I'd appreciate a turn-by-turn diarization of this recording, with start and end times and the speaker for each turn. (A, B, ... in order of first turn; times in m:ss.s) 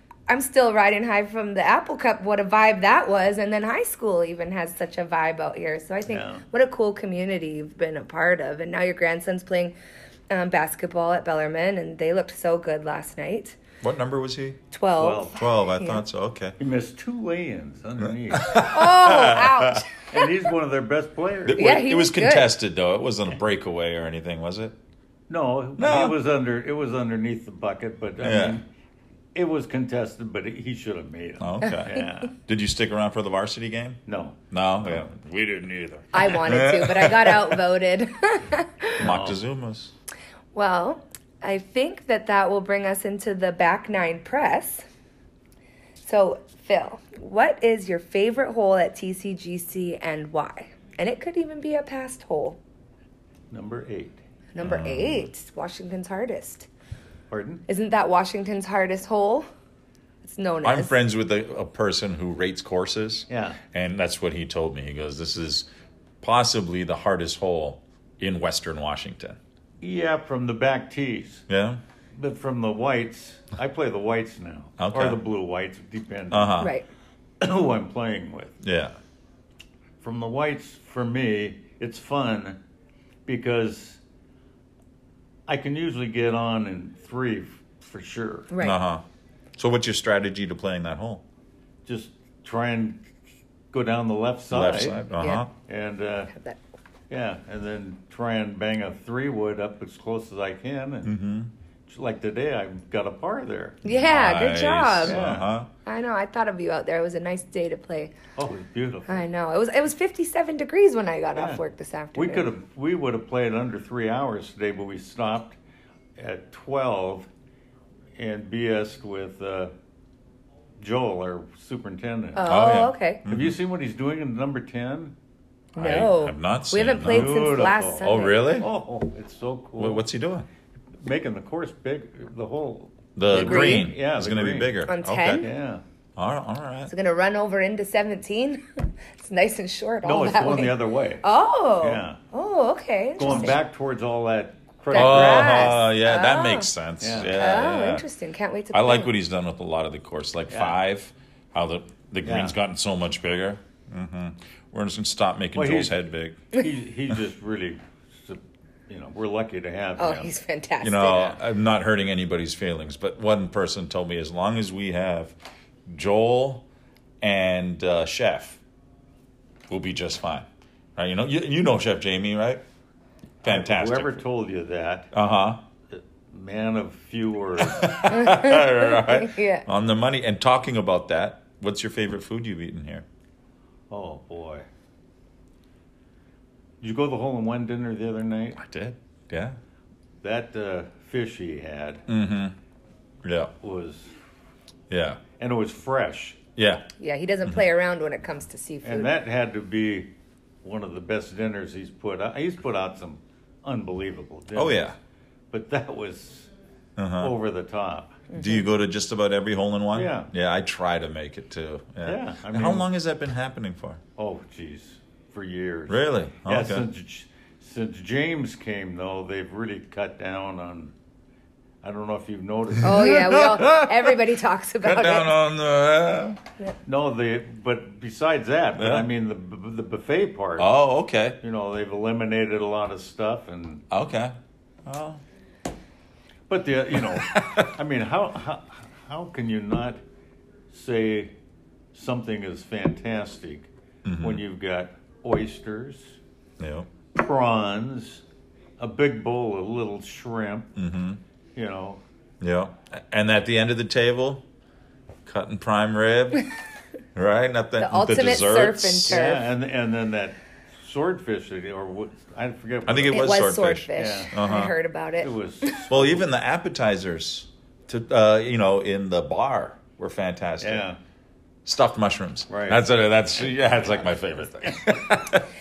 0:00.3-0:09.7 A
0:06.1-0:06.4 B
0:10.3-0:13.6 A
0:13.8-0:14.6 C
0:14.7-0:16.0 A
0:15.0-0:15.4 B
0:15.3-0:16.6 C
0:16.6-0:18.6 B
0:18.3-0:19.9 C
0:18.5-0:20.3 A
0:20.1-0:21.7 B
0:21.5-0:24.7 C
0:21.5-0:22.5 A
0:25.3-0:28.6 B
0:25.8-0:26.2 C
0:28.2-0:28.6 C
0:29.3-0:32.3 B
0:31.4-0:34.0 C
0:31.6-0:32.2 A
0:34.1-0:35.0 B
0:34.5-0:37.6 C
0:36.1-0:39.1 A
0:39.0-0:39.4 B
0:39.0-0:39.9 C
0:40.5-0:44.8 A
0:46.0-0:52.6 A
0:53.5-0:54.2 B
0:54.5-0:56.7 A
0:54.6-0:55.3 C
0:57.3-0:57.6 B
0:57.7-0:59.5 A
1:00.2-1:00.9 A
1:00.6-1:05.7 C
1:03.3-1:03.6 B
1:06.2-1:09.4 C
1:09.8-1:11.4 B
1:11.5-1:11.8 C
1:12.1-1:16.6 B
1:14.8-1:15.2 C
1:16.3-1:16.7 C
1:16.6-1:16.8 A
1:17.4-1:18.6 B
1:18.6-1:19.0 C
1:20.0-1:22.6 B
1:23.2-1:24.0 B
1:25.5-1:28.5 B
1:28.5-1:28.8 A
1:28.6-1:29.0 C
1:29.6-1:31.2 C
1:31.8-1:33.1 B
1:33.7-1:36.3 B
1:34.5-1:35.5 C
1:35.2-1:35.5 A
1:37.1-1:41.2 B
1:41.0-1:41.5 C
1:41.9-1:43.8 B
1:43.8-1:45.2 A
1:43.8-1:45.7 C
1:45.1-1:45.5 B
1:45.8-1:48.2 A
1:48.4-1:49.2 B
1:49.1-1:52.5 A
1:51.4-1:51.6 B
1:52.1-1:55.6 B
1:56.2-1:57.3 B
1:58.2-1:59.7 B
2:00.8-2:02.4 B
2:02.4-2:03.2 A
2:02.4-2:03.6 C
2:03.3-2:05.1 B
2:05.8-2:08.5 A
2:05.8-2:08.7 C
2:07.0-2:10.0 B
2:09.8-2:10.5 C
2:11.0-2:14.8 B
2:13.2-2:15.4 C
2:13.3-2:13.9 A
2:14.9-2:15.5 A
2:15.4-2:15.8 B
2:16.2-2:16.9 C
2:16.9-2:23.6 A
2:20.0-2:21.2 B
2:21.8-2:22.2 B
2:23.2-2:25.8 B
2:24.9-2:26.7 A
2:25.0-2:28.0 C
2:27.0-2:27.4 B
2:27.4-2:29.1 A
2:28.7-2:36.4 C
2:30.5-2:30.8 B
2:32.2-2:32.5 B
2:35.5-2:36.0 B
2:36.5-2:40.3 B
2:40.0-2:41.4 A
2:40.8-2:46.6 C
2:47.2-2:48.6 C
2:49.7-2:52.6 C
2:53.4-2:55.1 B
2:53.4-2:54.2 C
2:55.1-2:55.6 C
2:55.9-2:58.0 B
2:57.6-3:03.0 C
2:58.1-2:59.6 A
3:03.9-3:04.7 B
3:06.8-3:08.6 B
3:08.6-3:09.6 C
3:10.2-3:12.0 B
3:12.1-3:12.5 C
3:13.2-3:13.5 C
3:13.6-3:14.2 B
3:14.9-3:15.2 C
3:15.4-3:16.4 B
3:16.6-3:16.8 C
3:17.0-3:19.1 A
3:18.8-3:20.1 B
3:20.6-3:24.9 B
3:24.5-3:25.0 C
3:25.5-3:26.5 B
3:27.0-3:27.3 C
3:27.2-3:28.2 B
3:28.3-3:28.7 A
3:28.3-3:34.0 C
3:29.9-3:30.3 B
3:32.0-3:32.9 B
3:34.2-3:40.9 B
3:35.9-3:36.8 C
3:41.8-3:43.8 B
3:42.8-3:44.1 C
3:42.8-3:45.3 A
3:44.8-3:46.4 C
3:46.8-3:50.7 B
3:48.8-3:49.1 C
3:50.6-3:51.4 C
3:51.4-3:53.8 B
3:53.9-3:55.2 C
3:56.5-4:00.0 B
3:57.0-3:57.7 C
4:00.7-4:01.3 B
4:01.9-4:03.7 B
4:04.0-4:04.4 C
4:04.2-4:06.2 B
4:06.6-4:06.9 C
4:07.1-4:08.2 B
4:08.8-4:10.7 B
4:10.8-4:11.2 C
4:11.5-4:12.0 B
4:12.4-4:14.4 C
4:15.2-4:16.5 C
4:17.1-4:19.2 C
4:17.8-4:19.4 A
4:19.1-4:23.4 B
4:22.8-4:24.7 C
4:23.1-4:25.8 A
4:24.0-4:24.5 B
4:25.2-4:26.3 B
4:25.9-4:30.8 C
4:30.6-4:31.0 B
4:31.6-4:35.4 C
4:32.5-4:32.8 B